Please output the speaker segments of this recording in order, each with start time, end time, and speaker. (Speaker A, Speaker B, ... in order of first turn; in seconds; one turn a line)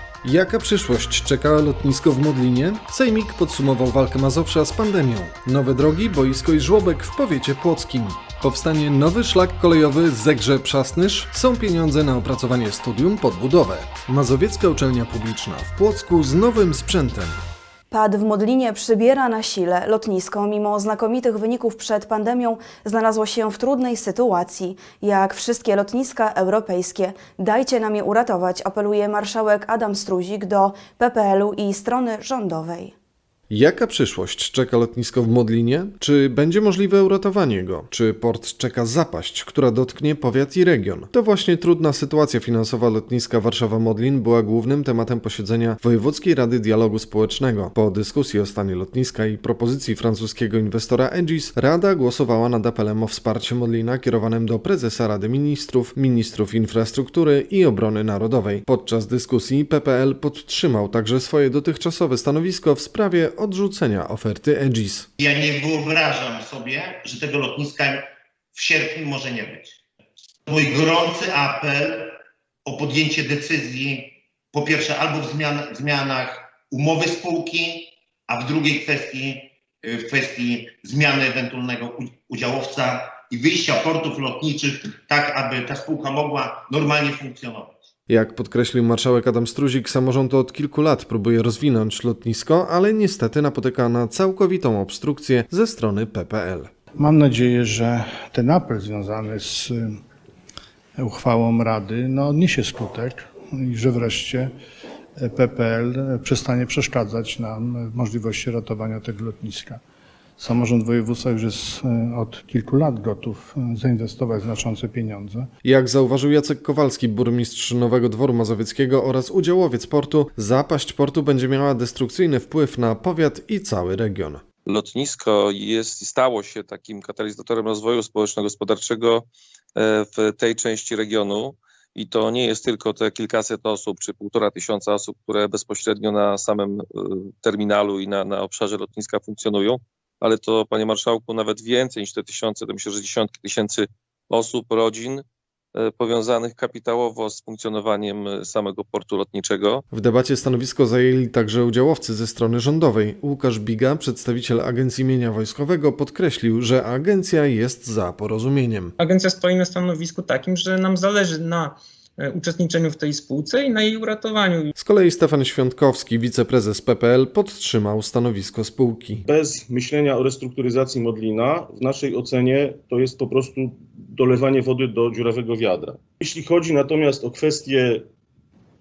Speaker A: 0.2-17.4
Speaker B: 17.9-32.9
Speaker A: 33.5-65.1
Speaker C: 65.2-69.8
Speaker C: 70.5-72.1
Speaker C: 72.7-87.7
Speaker A: 88.1-96.7
Speaker D: 97.0-99.8
Speaker D: 101.0-104.5
Speaker D: 105.2-109.8
Speaker D: 110.4-115.5
Speaker A: 115.6-124.4
Speaker E: 124.7-129.2
Speaker E: 129.8-145.2
Speaker E: 145.8-149.8
Speaker A: 149.9-158.9
Speaker F: 159.0-164.7
Speaker A: 164.8-169.2
Speaker G: 169.3-178.1